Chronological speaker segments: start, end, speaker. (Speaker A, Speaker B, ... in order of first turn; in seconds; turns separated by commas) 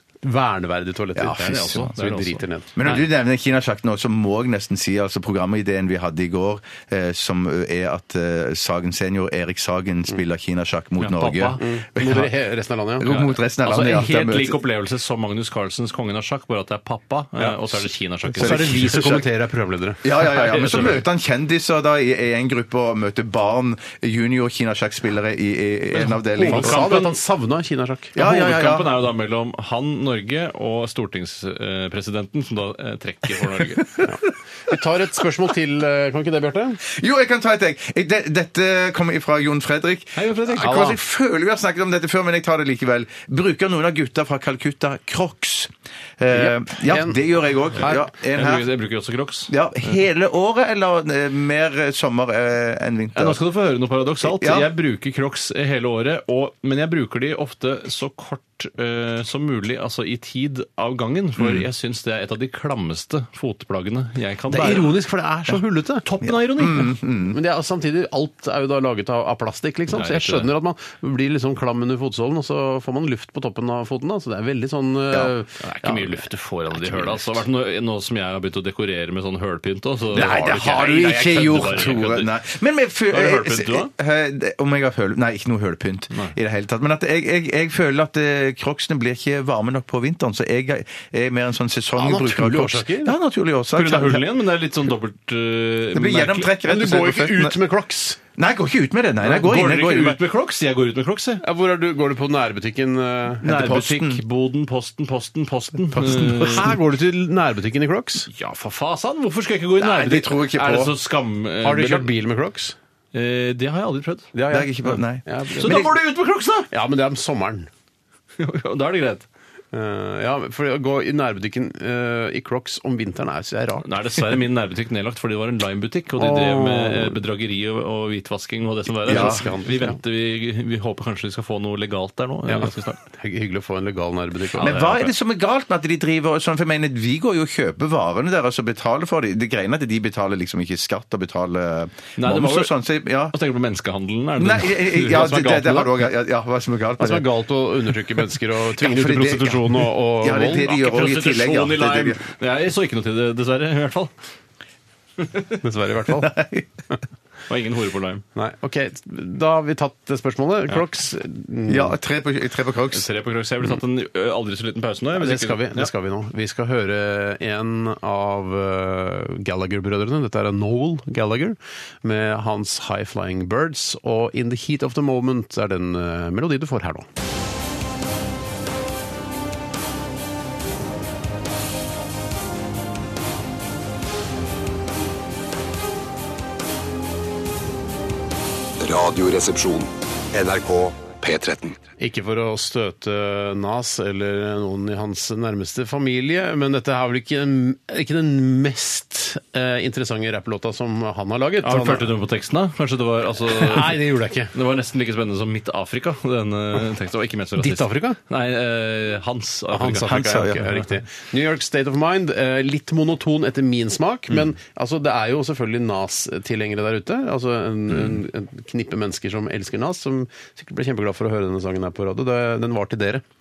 Speaker A: 0.2-2.8, Speaker B: 1.2-1.8, Speaker C: 1.2-3.0, Speaker B: 2.8-12.3, Speaker C: 11.0-11.6, Speaker A: 11.6-13.1, Speaker B: 13.0-14.6, Speaker C: 13.1-19.2, Speaker A: 18.3-20.1, Speaker B: 18.4-19.2, Speaker B: 20.0-27.0, Speaker C: 20.2-21.0, Speaker C: 26.0-27.1, Speaker A: 26.3-28.5, Speaker B: 28.1-28.9, Speaker C: 28.2-34.0, Speaker A: 34.0-36.8, Speaker B: 36.8-48.7, Speaker C: 40.1-40.9, Speaker A: 40.5-41.0, Speaker A: 46.3-47.2, Speaker C: 47.8-49.5, Speaker B: 49.5-53.4, Speaker C: 53.1-64.9, Speaker B: 54.2-54.7, Speaker B: 61.4-61.6, Speaker A: 64.5-66.0, Speaker C: 66.0-67.0, Speaker B: 66.2-67.4, Speaker A: 67.3-77.4, Speaker C: 69.9-70.5, Speaker C: 75.6-82.3, Speaker B: 80.1-94.2, Speaker A: 80.1-81.9, Speaker C: 83.1-83.9, Speaker A: 92.0-93.1, Speaker C: 93.7-96.5, Speaker B: 95.9-97.6, Speaker A: 96.6-98.2, Speaker B: 98.4-100.2, Speaker C: 99.2-101.4, Speaker A: 101.4-103.5, Speaker B: 103.4-104.2, Speaker C: 103.4-106.7, Speaker A: 106.0-108.3, Speaker B: 106.0-106.2, Speaker C: 108.3-112.1, Speaker B: 109.8-110.9, Speaker A: 111.6-112.8, Speaker C: 113.1-114.3, Speaker A: 114.3-116.0, Speaker B: 114.5-115.9, Speaker C: 115.6-116.7, Speaker A: 116.7-117.7, Speaker C: 118.4-119.3, Speaker A: 119.7-124.2, Speaker C: 123.8-133.0, Speaker A: 126.2-127.2, Speaker B: 129.1-129.4, Speaker A: 129.1-130.0, Speaker A: 132.5-135.1, Speaker C: 134.5-135.0, Speaker B: 134.6-143.3, Speaker C: 142.2-145.5, Speaker B: 144.4-147.3, Speaker A: 145.1-145.9, Speaker A: 147.0-150.7, Speaker B: 148.8-152.2, Speaker C: 150.6-154.1, Speaker C: 155.2-155.6, Speaker A: 155.6-156.3, Speaker B: 156.1-156.7, Speaker C: 157.5-158.2, Speaker A: 158.3-162.0, Speaker B: 161.7-163.1, Speaker C: 162.9-165.9, Speaker A: 165.2-177.1, Speaker D: 188.8-191.8, Speaker A: 192.0-202.1, Speaker C: 201.6-210.4, Speaker A: 203.4-204.5, Speaker A: 207.6-208.2, Speaker A: 209.7-223.2, Speaker B: 210.0-210.8